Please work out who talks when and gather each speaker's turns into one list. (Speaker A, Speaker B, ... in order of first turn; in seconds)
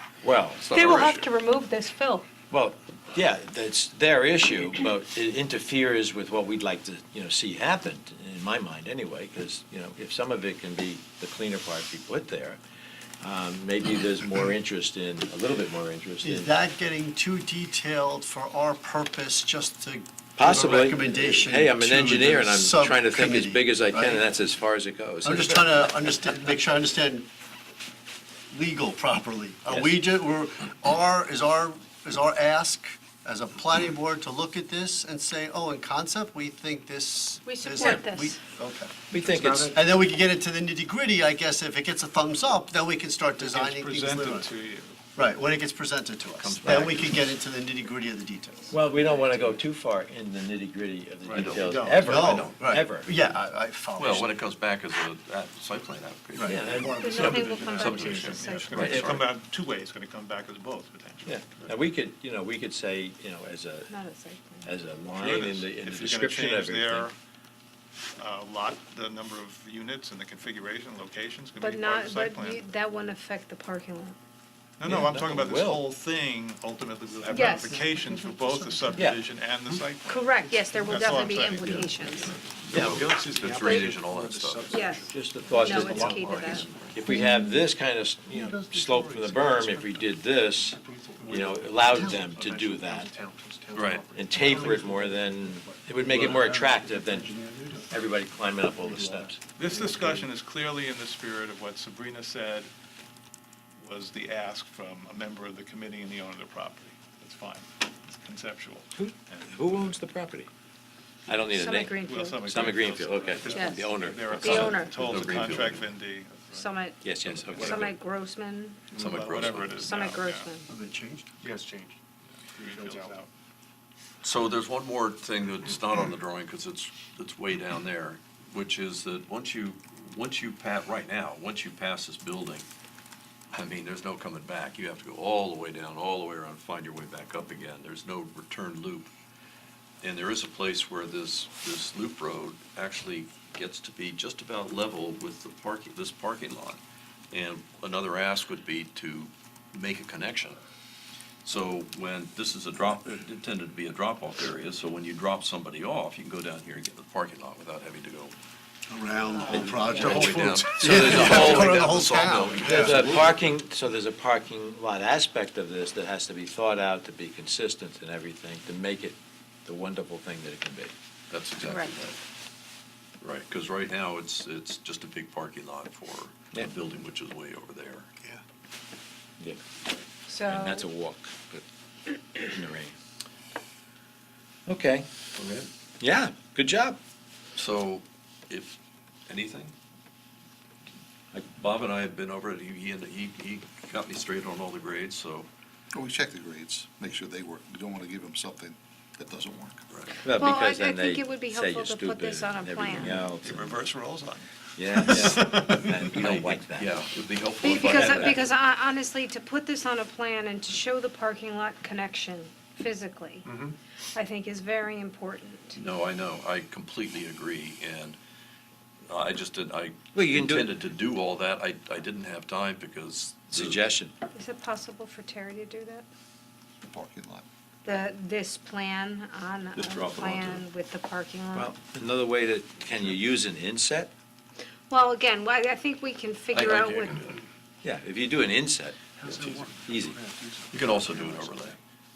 Speaker A: 0.2-0.8, 2.5-12.6, 13.2-16.5, 20.4-26.1, 29.7-30.0, 37.8-38.0, 39.1-39.8, 46.6-46.9, 48.7-53.1, 56.4-57.0, 58.7-59.2, 61.2-63.9, 64.6-67.1, 74.8-75.8, 78.9-79.2, 82.7-83.2, 85.1-90.8, 91.3-93.1, 94.1-99.4, 109.0-110.5, 111.3-114.7, 117.0-117.9, 160.8-161.8, 162.6-170.9, 180.5-181.6, 182.3-182.9, 184.7-185.1, 186.0-187.0, 200.2-203.8, 204.8-206.9, 207.7-208.4, 220.1-220.7, 223.5-224.1, 231.5-234.1, 237.8-239.0, 239.9-240.2
Speaker B: 0.6-1.3, 46.4-47.3, 51.3-52.6, 54.0-59.2, 82.6-84.8, 86.4-86.9, 93.7-94.0, 114.3-115.9, 117.2-118.0, 118.9-119.8, 124.2-132.7, 133.5-139.1, 140.0-146.8, 147.3-150.6, 151.4-158.3, 159.4-163.4, 171.3-172.2, 173.2-178.1, 185.3-185.7, 187.6-189.7, 191.5-195.5, 199.9-200.2, 206.1-208.4, 215.7-218.2, 219.1-223.8, 229.7-230.6, 236.5-237.4, 239.2-239.6, 240.7-241.8
Speaker C: 0.7-2.2, 37.4-38.4, 56.9-59.0, 63.9-64.7, 71.6-74.2, 77.3-77.7, 80.0-82.3, 83.6-84.0, 84.7-87.4, 111.5-112.5, 113.4-115.2, 116.5-117.0, 117.5-118.9, 119.7-120.7, 159.5-160.2, 171.6-171.9, 180.3-180.9, 200.3-203.2, 207.6-213.4, 214.1-215.8, 224.3-226.1, 227.8-231.7, 234.9-237.3
Speaker D: 16.2-24.2, 25.2-27.2, 28.5-38.9, 39.7-44.5, 45.1-48.8, 51.4-54.3, 56.3-57.3, 77.1-79.1, 88.3-90.0, 120.7-121.3, 158.9-163.3
Speaker E: 39.2-39.7, 83.0-86.9, 90.8-97.2, 98.8-100.1, 121.4-121.9, 122.6-123.2, 239.2-241.7
Speaker F: 43.4-45.0, 57.0-61.7, 65.1-67.1, 68.2-72.7, 74.8-83.2, 99.5-102.7, 103.8-110.0, 112.0-116.7, 118.9-120.5, 122.4-123.3, 203.0-206.0
Speaker G: 91.2-91.5, 92.0-92.2, 93.8-95.0, 195.9-199.8, 226.8-227.4, 239.4-239.8